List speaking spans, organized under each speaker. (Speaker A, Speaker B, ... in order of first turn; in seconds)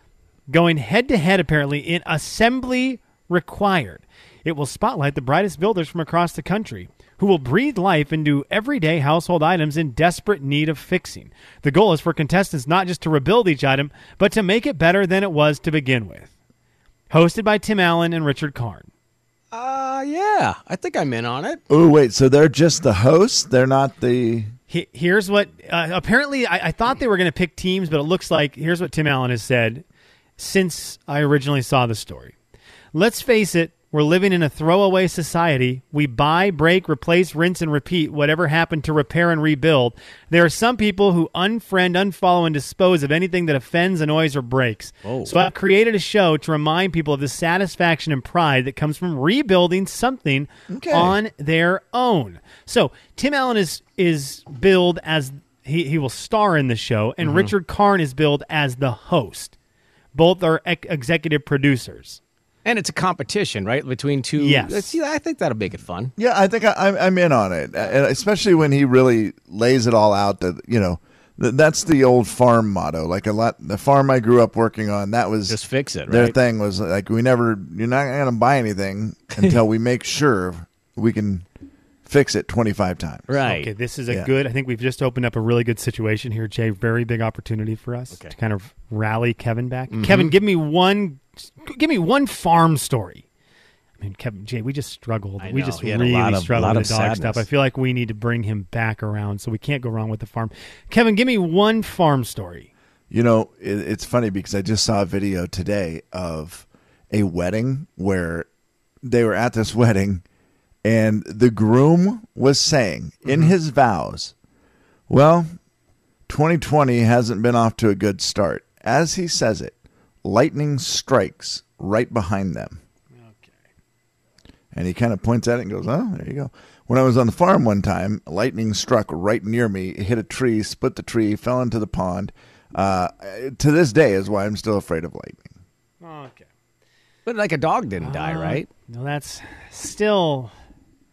Speaker A: 0.5-16.3, 17.1-18.9, 24.7-29.8, 30.4-32.3, 32.9-59.5, 60.1-62.2, 64.4-64.9, 83.4-93.2, 94.0-102.7, 123.2-123.5, 136.0-136.5, 138.0-140.5
Speaker B: 19.5-21.6, 45.0-45.3, 57.2-57.5, 62.6-66.1, 75.5-76.3, 83.3-83.7, 89.9-90.3, 95.4-97.4, 113.2-113.5, 137.2-138.7
Speaker C: 21.7-24.5, 50.7-51.2, 66.2-75.6, 76.1-81.5, 82.0-83.3, 103.1-108.5, 109.0-110.2, 110.8-114.3, 115.1-115.5, 116.3-122.8, 124.7-135.5